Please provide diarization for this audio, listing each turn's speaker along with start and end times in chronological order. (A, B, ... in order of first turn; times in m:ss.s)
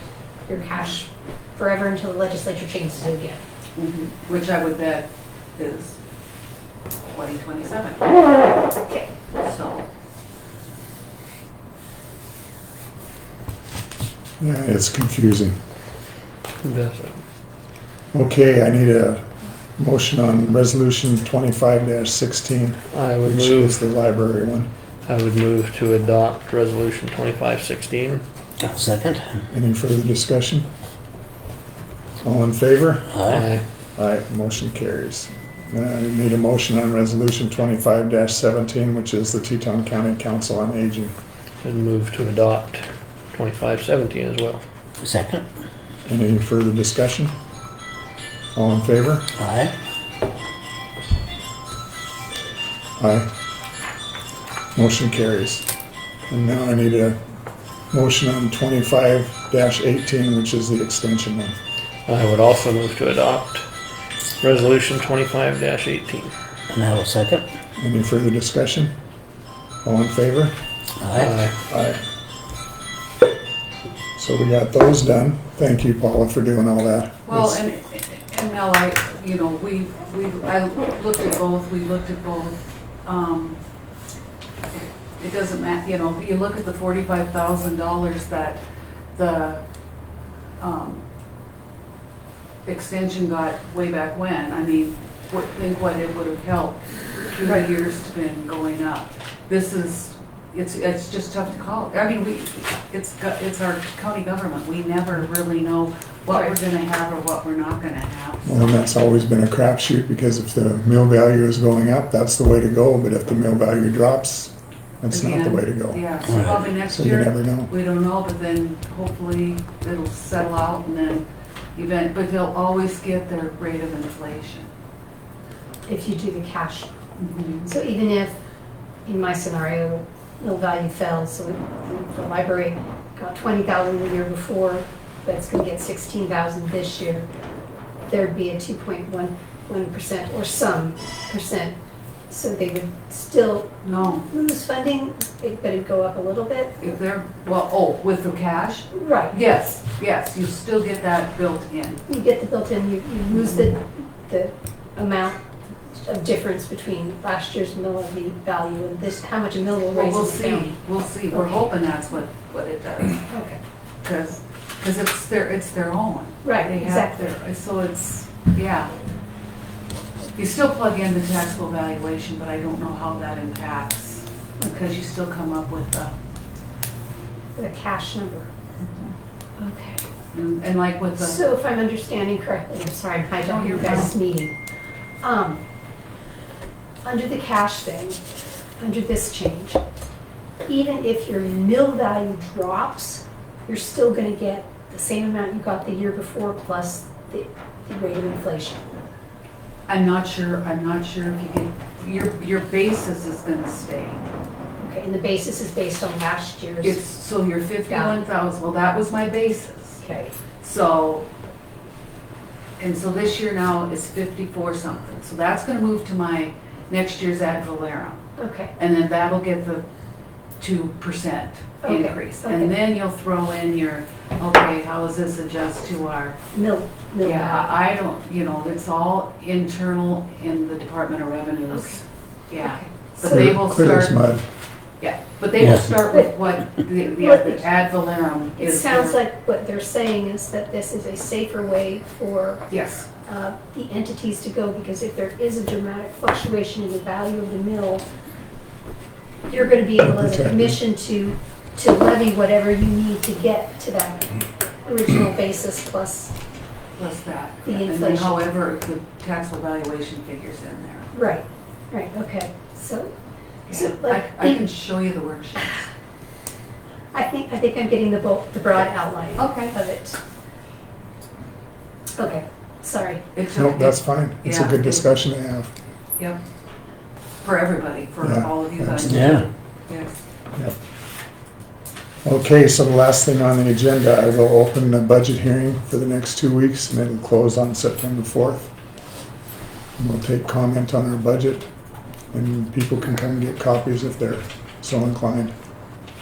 0:00.5-0:03.4 A
0:03.8-0:06.0 B
0:07.1-0:08.0 B
0:08.8-0:09.1 A
0:09.4-0:09.8 B
0:14.4-0:15.6 C
0:16.6-0:17.2 D
0:18.1-0:19.2 C
0:19.8-0:24.7 C
0:22.9-0:23.8 D
0:25.0-0:28.2 D
0:28.6-0:29.4 E
0:29.5-0:30.7 C
0:32.2-0:33.2 C
0:33.1-0:33.4 E
0:33.3-0:33.6 D
0:34.0-0:41.1 C
0:41.6-0:44.6 D
0:45.0-0:45.4 E
0:46.0-0:47.3 C
0:48.5-0:49.3 C
0:49.4-0:49.7 E
0:53.0-0:53.3 C
0:54.8-0:55.6 C
0:56.3-0:57.2 C
0:57.9-1:01.6 C
1:02.1-1:03.6 D
1:04.4-1:06.3 D
1:06.7-1:07.4 E
1:07.8-1:08.9 C
1:09.8-1:10.5 C
1:11.0-1:11.3 E
1:11.1-1:11.5 D
1:11.6-1:12.0 C
1:14.2-1:17.6 C
1:17.3-1:23.6 B
1:25.2-1:28.6 B
1:29.1-1:29.6 B
1:30.6-1:31.0 B
1:32.6-1:48.6 B
1:48.4-1:56.0 C
1:55.1-2:04.7 B
1:56.8-1:57.7 C
2:05.8-2:06.9 A
2:07.2-2:07.7 B
2:07.7-2:08.4 A
2:09.0-2:17.3 A
2:18.1-2:21.7 A
2:22.3-2:23.7 A
2:23.8-2:24.2 B
2:24.3-2:26.8 A
2:26.8-2:32.0 B
2:28.9-2:29.4 A
2:32.1-2:35.4 A
2:33.3-2:33.7 B
2:35.9-2:40.8 A
2:39.9-2:43.3 B
2:41.3-2:41.6 A
2:43.3-2:43.6 A
2:44.0-2:48.9 B
2:46.4-2:47.2 A
2:50.4-2:56.1 B
2:57.5-2:58.5 A
2:58.8-2:59.1 B
2:59.6-3:00.0 A
3:00.3-3:01.4 B
3:01.2-3:04.5 A
3:03.4-3:04.1 B
3:05.2-3:05.6 A
3:07.0-3:08.2 A
3:08.8-3:09.8 A
3:10.6-3:18.8 A
3:19.9-3:24.2 B
3:24.8-3:27.0 A
3:26.8-3:30.0 B
3:27.9-3:28.2 A
3:30.0-3:30.3 A
3:30.6-3:31.3 B
3:32.8-3:38.2 B
3:38.4-3:38.7 A
3:38.8-3:39.8 B
3:40.6-3:46.4 B
3:41.8-3:42.7 A
3:46.5-3:47.8 A
3:47.2-3:54.2 B
3:51.7-3:52.0 A
3:52.6-3:52.9 A
3:53.2-3:54.4 C
3:55.0-3:59.2 B
3:55.6-3:55.9 E
3:56.0-3:56.3 A
3:57.0-3:57.7 A
3:58.6-4:02.6 A
4:02.7-4:03.1 B
4:03.2-4:08.0 A
4:09.5-4:16.3 A
4:10.0-4:10.8 C
4:17.0-4:21.1 B
4:17.6-4:18.5 A
4:21.1-4:23.1 A
4:23.7-4:25.9 B
4:23.7-4:24.7 A
4:27.1-4:30.2 A
4:29.4-4:29.7 B
4:32.1-4:33.2 A
4:33.3-4:35.1 B
4:33.5-4:35.7 C
4:37.4-4:40.2 B
4:38.2-4:39.3 C
4:39.1-4:39.5 E
4:42.2-4:48.7 C
4:50.0-4:51.7 C
4:52.3-4:55.5 C